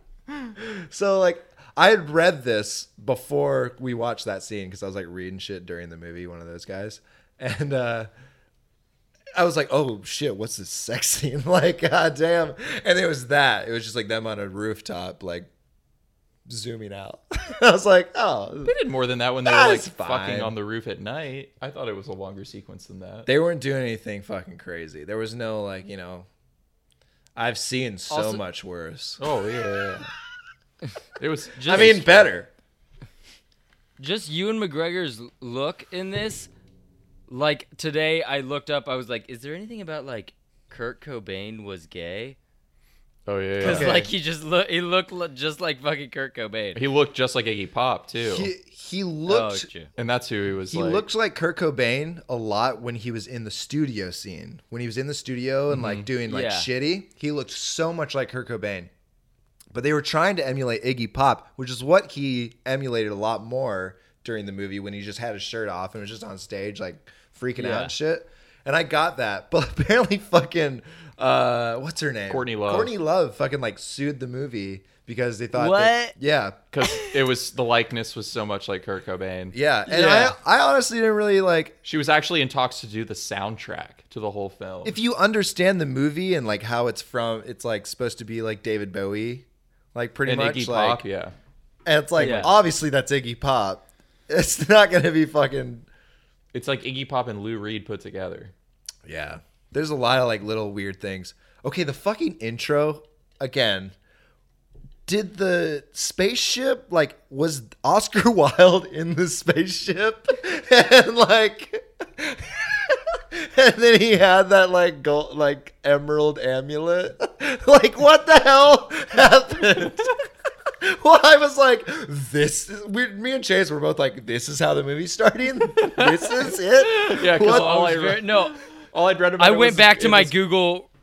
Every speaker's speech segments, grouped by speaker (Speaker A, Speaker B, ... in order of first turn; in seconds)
Speaker A: 0.6-8.1, 9.3-15.5, 16.5-18.7, 19.4-20.5, 23.2-26.3, 27.4-29.2, 31.7-32.5, 43.6-44.1, 48.2-49.7, 50.7-58.9, 59.7-76.6, 79.5-81.8, 84.8-91.0, 91.8-95.9, 99.0-103.9, 105.1-120.2, 120.8-127.8
Speaker B: 18.6-23.3, 29.2-30.1, 31.2-32.3, 43.2-44.0, 46.7-48.5, 50.0-51.0, 55.7-56.1, 72.3-72.9, 76.7-80.3, 81.8-85.0, 90.2-91.3, 96.5-98.5, 125.7-130.3
Speaker C: 28.1-28.4, 31.6-31.9, 34.0-36.5, 37.3-42.4, 43.6-46.8, 49.3-49.9, 56.2-56.7, 67.6-67.9, 75.5-76.1, 76.8-77.2, 92.2-92.5, 127.4-128.6, 129.4-130.9